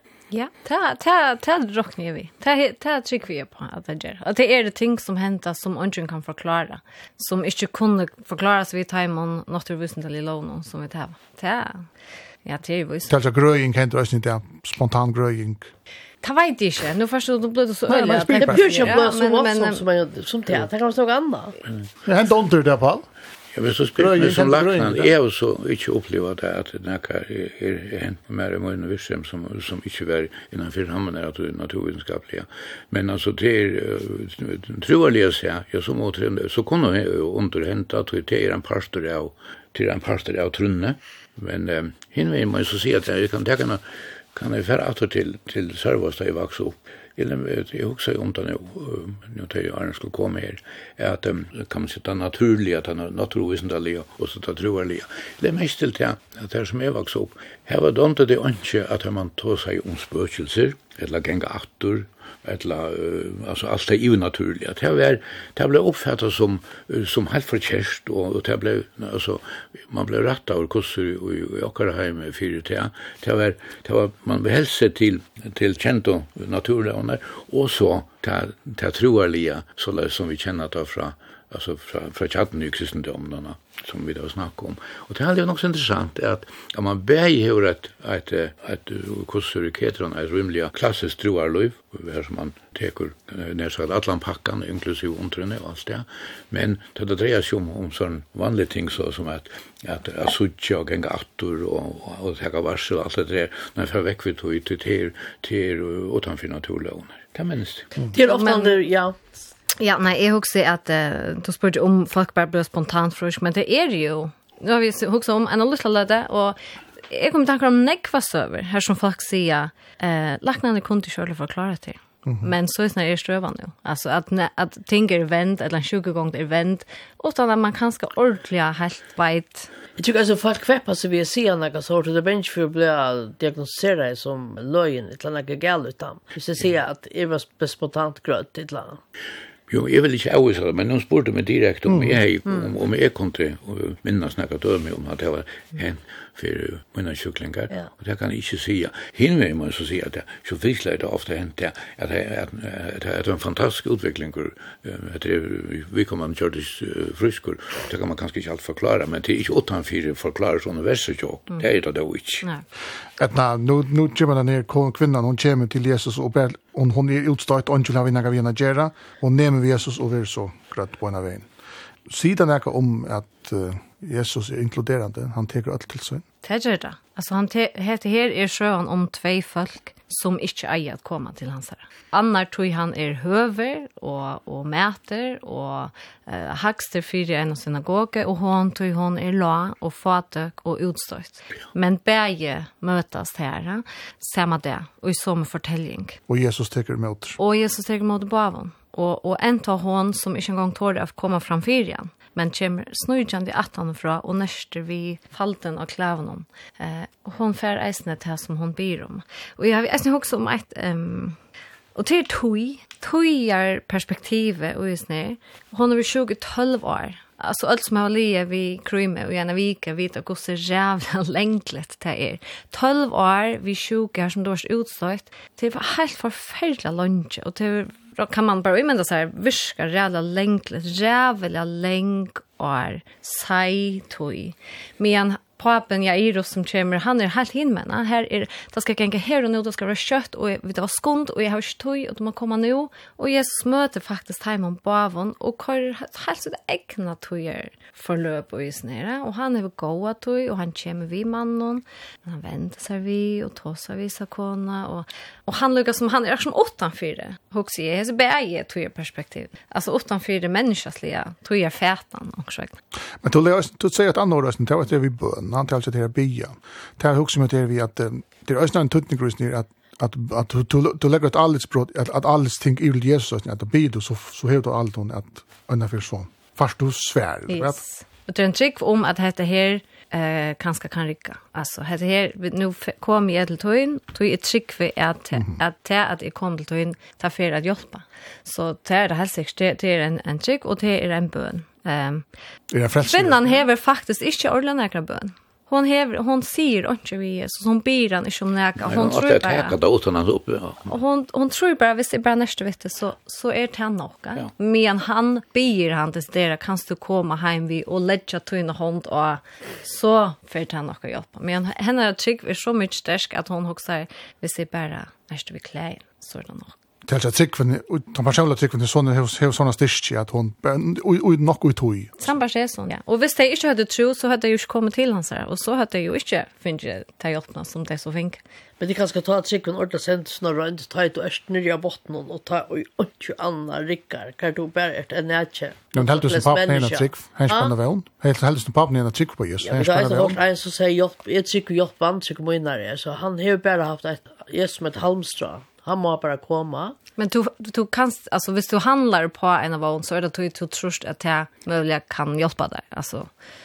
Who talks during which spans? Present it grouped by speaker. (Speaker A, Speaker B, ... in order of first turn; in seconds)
Speaker A: 0.3-11.9, 12.4-13.2, 16.2-19.8, 108.2-108.8, 109.8-129.7, 176.4-196.2, 197.4-211.4, 211.9-262.8, 277.5-292.2, 293.0-299.8, 300.9-316.8, 322.2-328.4, 347.2-353.3
Speaker B: 13.1-15.7, 18.3-18.7, 22.1-23.1, 24.0-25.1, 141.9-142.2, 163.2-171.5, 172.1-176.2, 196.3-197.4, 263.2-277.8, 292.7-293.5, 317.1-322.2, 335.9-340.4
Speaker C: 17.9-21.6, 108.1-109.2, 130.0-139.0, 328.8-337.7, 339.6-346.9
Speaker D: 23.5-43.8, 44.4-108.0, 139.7-162.5, 298.8-300.9